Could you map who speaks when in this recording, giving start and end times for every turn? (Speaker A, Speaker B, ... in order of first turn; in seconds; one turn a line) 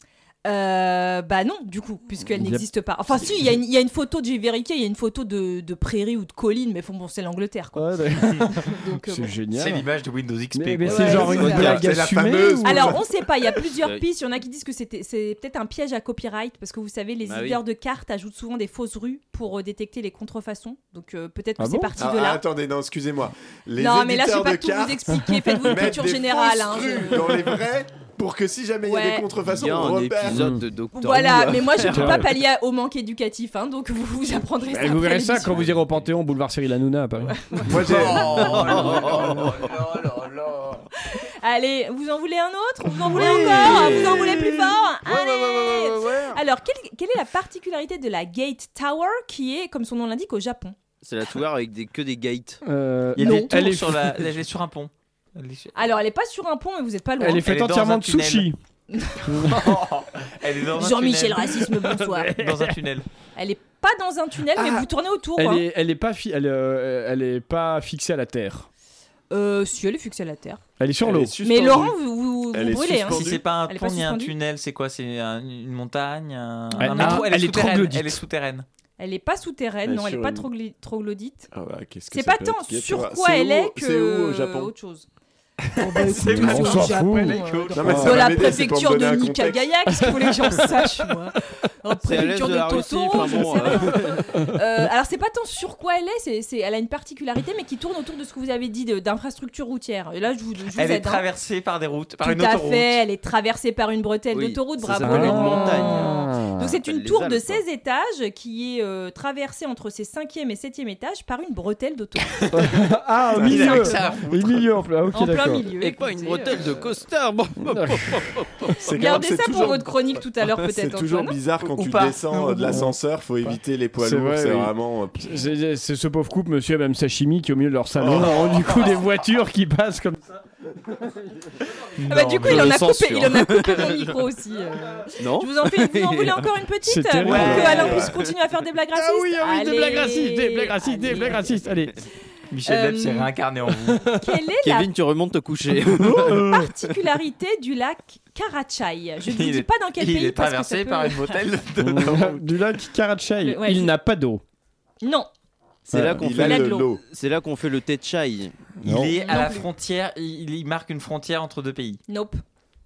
Speaker A: 0.5-9.3
Speaker B: 2.3-2.7
Speaker B: 7.8-9.9
Speaker C: 9.5-11.9
Speaker B: 10.5-12.9
Speaker A: 10.8-11.7
Speaker D: 11.1-13.1
Speaker E: 11.4-11.7
Speaker A: 12.6-22.4
Speaker E: 13.8-14.0
Speaker E: 17.2-17.6
Speaker B: 21.6-21.9
Speaker D: 22.0-30.5
Speaker A: 23.8-27.4
Speaker A: 28.9-29.3
Speaker E: 29.5-32.2
Speaker B: 30.3-30.6
Speaker A: 30.9-35.6
Speaker B: 31.9-32.3
Speaker B: 34.7-37.8
Speaker A: 37.3-37.8
Speaker D: 37.7-38.9
Speaker C: 37.9-40.9
Speaker E: 38.0-39.7
Speaker A: 41.0-50.8
Speaker E: 43.0-46.4
Speaker E: 51.0-52.6
Speaker B: 52.6-54.2
Speaker C: 53.2-55.8
Speaker A: 53.2-53.5
Speaker A: 55.8-57.5
Speaker B: 57.2-58.6
Speaker C: 57.4-58.5
Speaker A: 58.9-59.3
Speaker B: 59.3-59.8
Speaker C: 59.4-61.7
Speaker A: 60.8-62.3
Speaker B: 62.0-62.7
Speaker C: 62.4-63.1
Speaker A: 63.4-65.7
Speaker B: 65.4-68.7
Speaker A: 69.3-70.6
Speaker B: 70.8-71.3
Speaker D: 71.0-72.0
Speaker A: 71.4-74.3
Speaker D: 72.5-73.4
Speaker C: 73.0-78.7
Speaker B: 76.8-78.2
Speaker A: 76.8-77.2
Speaker A: 79.0-81.5
Speaker D: 79.8-80.5
Speaker D: 81.5-84.7
Speaker A: 82.1-85.1
Speaker A: 85.8-101.2
Speaker C: 85.8-88.1
Speaker B: 85.8-88.4
Speaker D: 87.8-89.9
Speaker B: 90.1-90.7
Speaker E: 92.0-94.4
Speaker C: 100.8-103.0
Speaker A: 102.2-112.5
Speaker E: 104.3-107.6
Speaker B: 105.0-106.7
Speaker B: 112.5-115.7
Speaker C: 113.3-114.7
Speaker A: 113.4-114.2
Speaker A: 115.1-116.9
Speaker E: 115.8-118.9
Speaker B: 117.7-118.1
Speaker D: 118.8-125.5
Speaker A: 118.8-121.4
Speaker C: 121.7-122.8
Speaker B: 124.0-130.2
Speaker D: 128.0-128.8
Speaker C: 132.0-132.9
Speaker A: 132.1-141.6
Speaker E: 132.4-134.2
Speaker E: 135.2-136.5
Speaker B: 136.8-138.1
Speaker C: 137.3-138.0
Speaker E: 137.3-138.1
Speaker D: 137.5-138.1
Speaker B: 138.9-141.9
Speaker C: 142.5-144.0
Speaker A: 142.7-143.3
Speaker A: 144.2-144.9
Speaker E: 144.6-146.7
Speaker B: 145.9-146.6
Speaker A: 146.3-151.4
Speaker C: 149.3-152.4
Speaker B: 151.8-154.4
Speaker A: 153.4-153.9
Speaker A: 155.0-155.3
Speaker E: 155.9-158.6
Speaker B: 155.9-156.3
Speaker D: 156.2-157.0
Speaker A: 156.3-156.9
Speaker B: 158.8-159.2
Speaker C: 158.8-162.0
Speaker A: 159.1-159.7
Speaker A: 162.1-162.4